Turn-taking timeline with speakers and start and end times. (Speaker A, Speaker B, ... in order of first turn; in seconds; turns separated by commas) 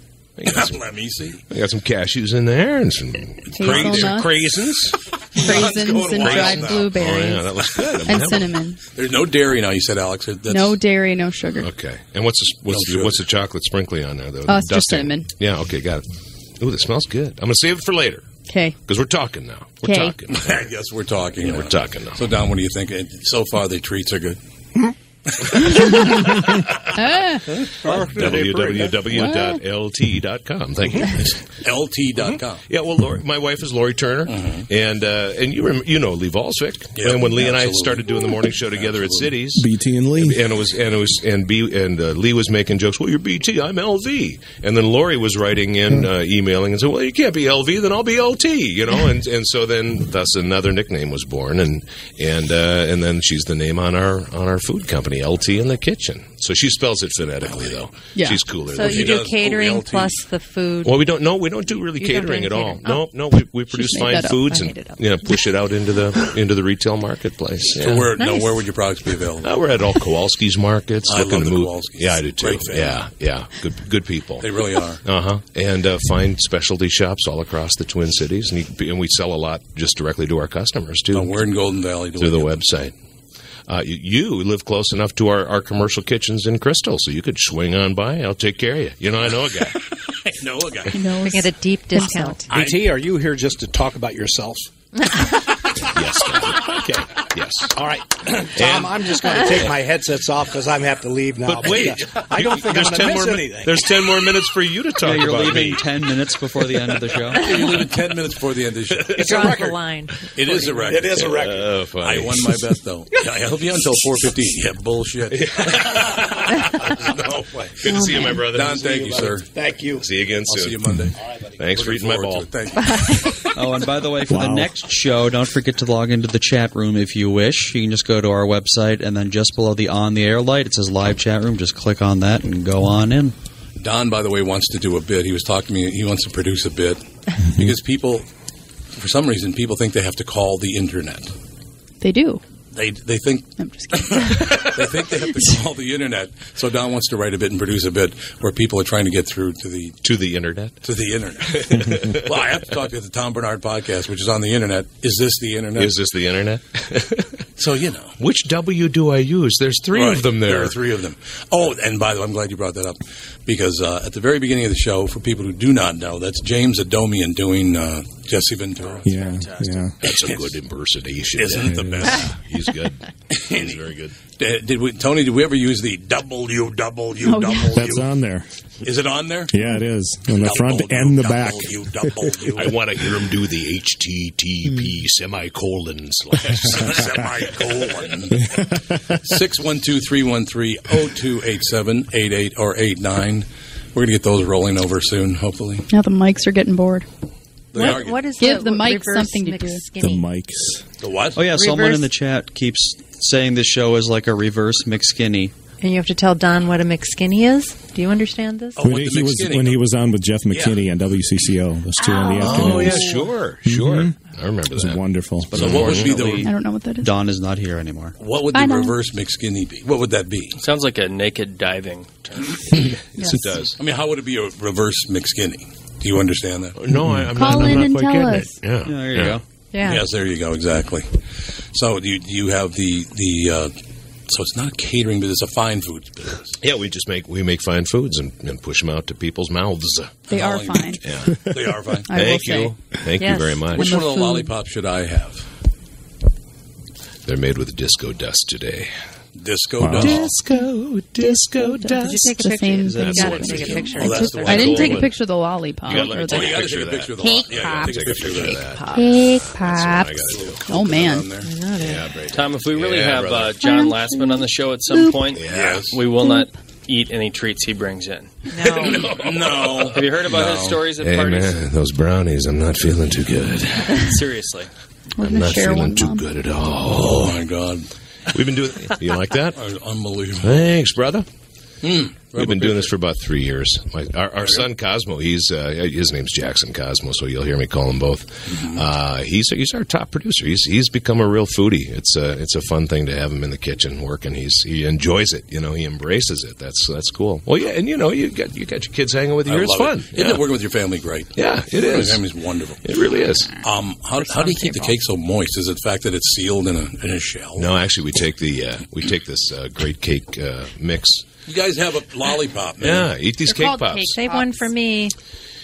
Speaker A: 0.4-0.8, Speaker B: 0.5-1.4, Speaker A: 1.5-4.9, Speaker C: 3.5-4.4, Speaker B: 3.5-7.1, Speaker C: 5.3-8.8, Speaker A: 6.2-8.6, Speaker B: 8.9-10.8, Speaker C: 10.5-11.7, Speaker A: 11.6-16.1, Speaker B: 12.7-13.3, Speaker C: 14.5-15.3, Speaker A: 16.6-18.3, Speaker C: 18.4-18.8, Speaker A: 18.9-20.6, Speaker C: 19.8-20.2, Speaker B: 20.3-24.4, Speaker A: 21.4-22.2, Speaker B: 25.3-26.1, Speaker C: 25.7-27.5, Speaker B: 27.5-28.4, Speaker D: 27.9-29.1, Speaker A: 27.9-31.1, Speaker C: 29.1-29.6, Speaker B: 31.1-32.6, Speaker A: 32.2-59.1, Speaker B: 34.3-34.7, Speaker B: 37.0-39.4, Speaker E: 39.6-40.4, Speaker B: 57.5-57.8, Speaker C: 58.1-58.4, Speaker F: 58.7-61.0, Speaker B: 58.8-60.2, Speaker A: 60.8-68.1, Speaker F: 62.0-63.0, Speaker C: 63.7-64.4, Speaker F: 64.4-65.0, Speaker B: 67.8-69.5, Speaker F: 68.2-68.6, Speaker A: 69.4-74.5, Speaker B: 71.1-73.0, Speaker B: 74.4-75.0, Speaker A: 75.0-81.4, Speaker B: 81.1-82.6, Speaker A: 82.2-82.9, Speaker A: 83.7-89.8, Speaker B: 90.2-91.0, Speaker C: 90.9-92.5, Speaker F: 91.2-92.5, Speaker D: 92.5-94.7, Speaker A: 95.9-97.7, Speaker D: 97.8-103.9, Speaker A: 98.6-99.0, Speaker A: 101.5-105.8, Speaker B: 101.7-102.0, Speaker G: 105.0-107.4, Speaker B: 107.3-109.5, Speaker A: 109.0-109.5, Speaker D: 109.2-109.8, Speaker F: 109.2-110.2, Speaker B: 110.3-111.4, Speaker A: 110.6-112.5, Speaker D: 110.9-111.7, Speaker B: 112.0-117.2, Speaker A: 115.3-119.4, Speaker C: 117.9-118.5, Speaker B: 118.3-119.5, Speaker D: 119.5-120.0, Speaker A: 120.0-120.8, Speaker B: 120.5-123.6, Speaker A: 121.6-122.5, Speaker F: 122.8-123.3, Speaker G: 123.5-133.3, Speaker E: 124.3-124.8, Speaker B: 133.8-137.0, Speaker B: 137.6-138.3, Speaker B: 139.0-141.3, Speaker C: 142.0-142.4, Speaker B: 142.7-150.0, Speaker C: 143.6-145.6, Speaker A: 150.0-150.8, Speaker B: 150.8-155.9, Speaker A: 151.4-152.3, Speaker A: 155.8-157.3, Speaker B: 157.6-158.2, Speaker A: 158.2-160.8, Speaker B: 159.9-169.2, Speaker E: 169.0-170.0, Speaker H: 169.2-169.8, Speaker A: 170.0-171.8, Speaker B: 170.0-170.6, Speaker B: 171.3-172.4, Speaker E: 171.7-172.1, Speaker A: 172.4-174.2, Speaker B: 173.3-173.8, Speaker B: 174.3-178.1, Speaker C: 177.2-177.8, Speaker E: 177.7-178.5, Speaker B: 178.8-179.6, Speaker E: 179.5-181.7, Speaker B: 180.4-182.8, Speaker A: 182.6-187.1, Speaker B: 186.4-195.9, Speaker C: 195.9-197.1, Speaker B: 197.7-198.3, Speaker F: 197.7-200.2, Speaker C: 198.3-199.9, Speaker E: 200.0-200.8, Speaker B: 201.0-202.0, Speaker G: 201.3-205.5, Speaker F: 201.5-202.0, Speaker F: 205.8-208.8, Speaker B: 208.8-209.8, Speaker E: 208.8-213.0, Speaker B: 210.5-210.8, Speaker C: 212.0-213.3, Speaker A: 212.4-216.2, Speaker E: 213.6-214.2, Speaker E: 214.7-215.6, Speaker G: 215.5-218.2, Speaker B: 215.5-216.5, Speaker C: 216.4-217.1, Speaker B: 218.2-220.6, Speaker C: 218.5-219.0, Speaker H: 220.6-222.5, Speaker A: 222.8-223.8, Speaker C: 223.2-223.6, Speaker B: 223.8-226.8, Speaker A: 226.8-229.4, Speaker C: 227.3-228.5, Speaker G: 228.8-229.4, Speaker F: 229.7-230.1, Speaker B: 229.8-231.2, Speaker B: 231.7-233.7, Speaker B: 234.3-236.6, Speaker A: 236.6-240.2, Speaker C: 240.3-241.0, Speaker B: 240.3-242.1, Speaker A: 241.0-241.4, Speaker C: 242.1-242.8, Speaker A: 242.1-244.0, Speaker F: 243.2-243.7, Speaker B: 243.7-245.5, Speaker C: 243.7-244.6, Speaker A: 247.2-248.9, Speaker B: 249.4-250.4, Speaker E: 249.8-250.1, Speaker A: 250.0-252.4, Speaker C: 250.2-256.5, Speaker F: 252.0-254.8, Speaker G: 252.8-253.3, Speaker A: 253.0-253.8, Speaker B: 253.7-255.1, Speaker A: 254.4-255.1, Speaker B: 255.8-258.7, Speaker A: 255.8-260.6, Speaker C: 257.2-258.1, Speaker F: 258.7-259.1, Speaker C: 258.9-261.4, Speaker B: 260.3-261.5, Speaker F: 261.4-262.1, Speaker A: 261.8-263.6, Speaker H: 262.3-268.4, Speaker C: 263.6-265.3, Speaker A: 265.3-265.8, Speaker B: 265.5-266.0, Speaker C: 266.1-266.6, Speaker F: 268.5-269.1, Speaker B: 268.6-270.9, Speaker H: 269.8-271.6, Speaker A: 271.0-273.9, Speaker H: 274.1-274.7, Speaker C: 275.2-276.2, Speaker A: 275.2-277.4, Speaker B: 276.9-277.9, Speaker A: 278.3-279.6, Speaker B: 279.6-280.7, Speaker A: 280.4-281.3, Speaker B: 281.8-282.9, Speaker A: 282.3-300.4, Speaker B: 288.5-288.8, Speaker B: 299.4-302.8, Speaker A: 301.4-302.2, Speaker A: 302.8-303.5, Speaker B: 303.6-307.7, Speaker C: 304.6-304.9, Speaker A: 307.6-311.3, Speaker B: 311.5-313.1, Speaker A: 312.8-314.2, Speaker F: 314.1-315.1